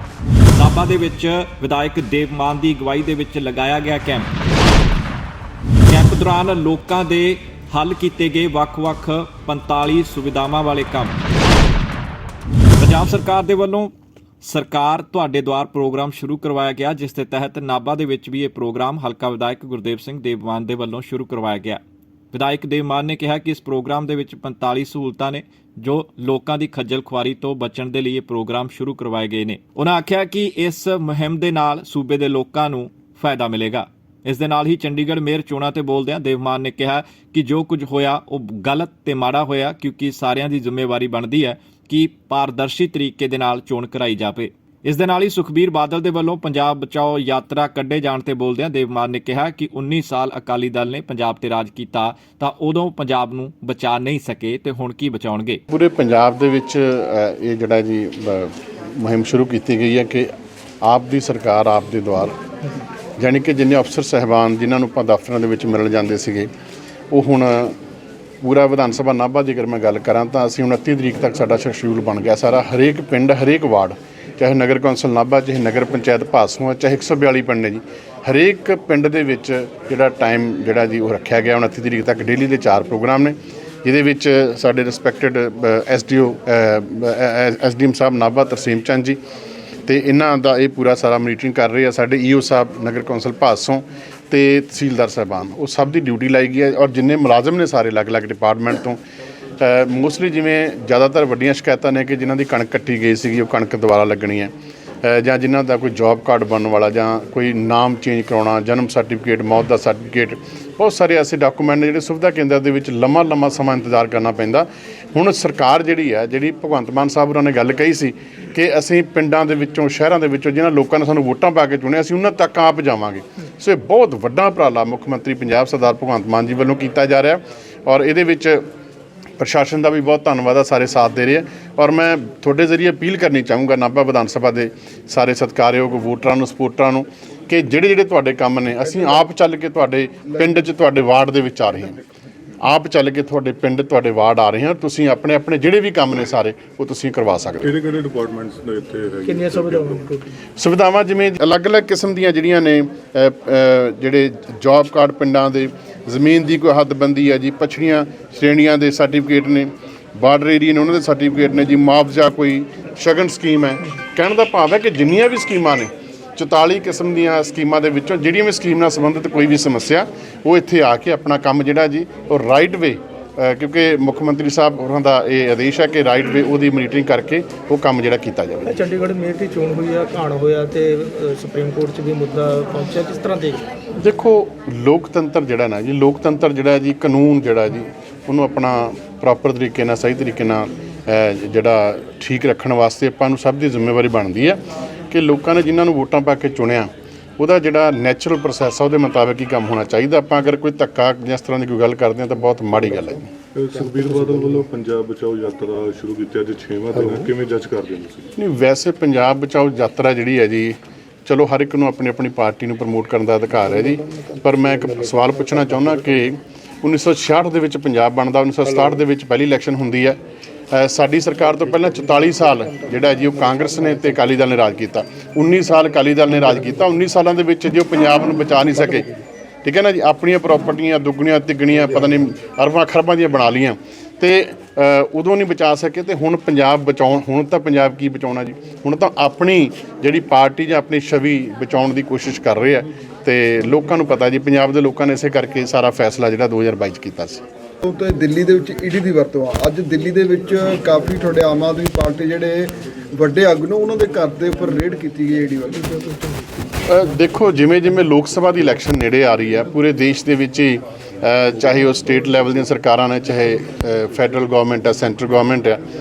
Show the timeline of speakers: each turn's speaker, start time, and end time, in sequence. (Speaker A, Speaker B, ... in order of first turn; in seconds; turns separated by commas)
Speaker A: 0.5-4.3, Speaker A: 5.9-11.2, Speaker A: 12.8-21.8, Speaker A: 22.3-55.6, Speaker B: 55.7-60.3, Speaker B: 60.8-62.3, Speaker B: 63.2-66.5, Speaker B: 67.1-67.8, Speaker B: 68.4-89.2, Speaker B: 89.9-99.0, Speaker B: 99.6-104.5, Speaker B: 105.0-128.6, Speaker B: 129.4-142.0, Speaker B: 142.6-147.7, Speaker C: 147.6-150.1, Speaker D: 149.2-150.3, Speaker B: 150.6-178.8, Speaker D: 178.7-183.7, Speaker B: 184.0-194.6, Speaker B: 195.1-203.3, Speaker C: 203.5-208.3, Speaker B: 208.4-220.2, Speaker B: 220.7-247.4, Speaker E: 247.8-256.0, Speaker B: 256.8-265.8